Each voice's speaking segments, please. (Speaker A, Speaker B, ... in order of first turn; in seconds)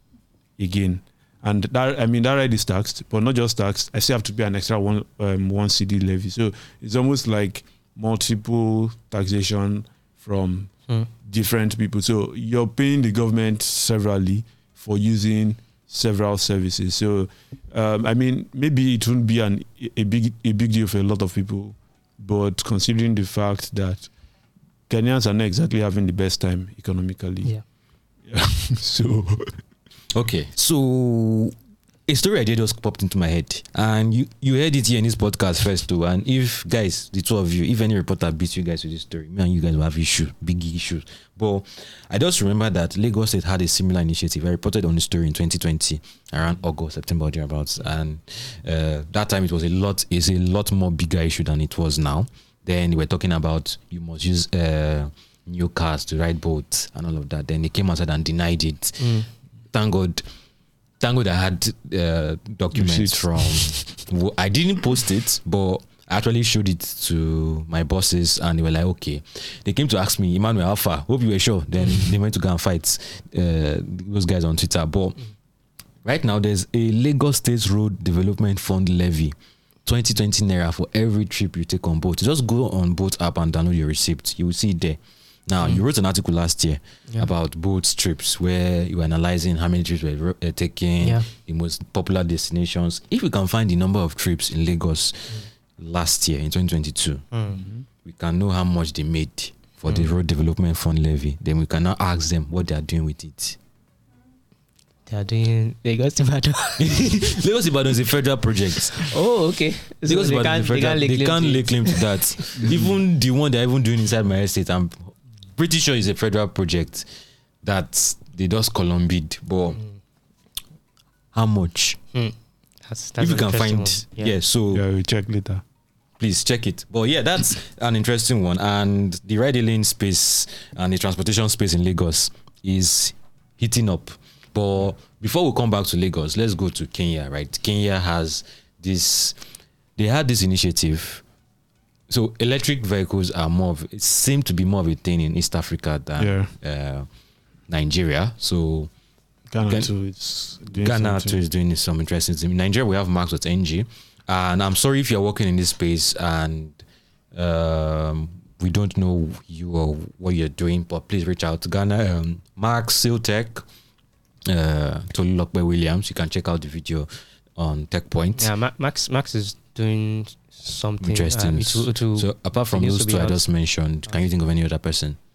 Speaker A: 0.6-24.1, 24.9-27.6, 28.3-29.6, 62.8-63.8, 97.5-97.8, 124.7-125.6, 146.2-146.5, 149.5-151.4
Speaker B: 30.1-31.6, 32.1-60.2, 61.0-75.2, 76.0-79.3, 79.9-97.3, 98.0-103.6, 106.8-109.1, 110.0-117.1, 117.6-119.8, 121.3-122.0, 123.2-124.8, 126.2-139.4, 140.0-141.2, 142.1-147.1, 147.7-148.9, 149.7-149.9, 150.5-156.8, 157.3-163.6, 164.5-168.5, 171.0-175.2
Speaker C: 59.0-59.3, 91.0-91.3, 97.3-97.6, 105.1-107.3, 109.0-112.7, 122.1-124.4, 168.4-173.4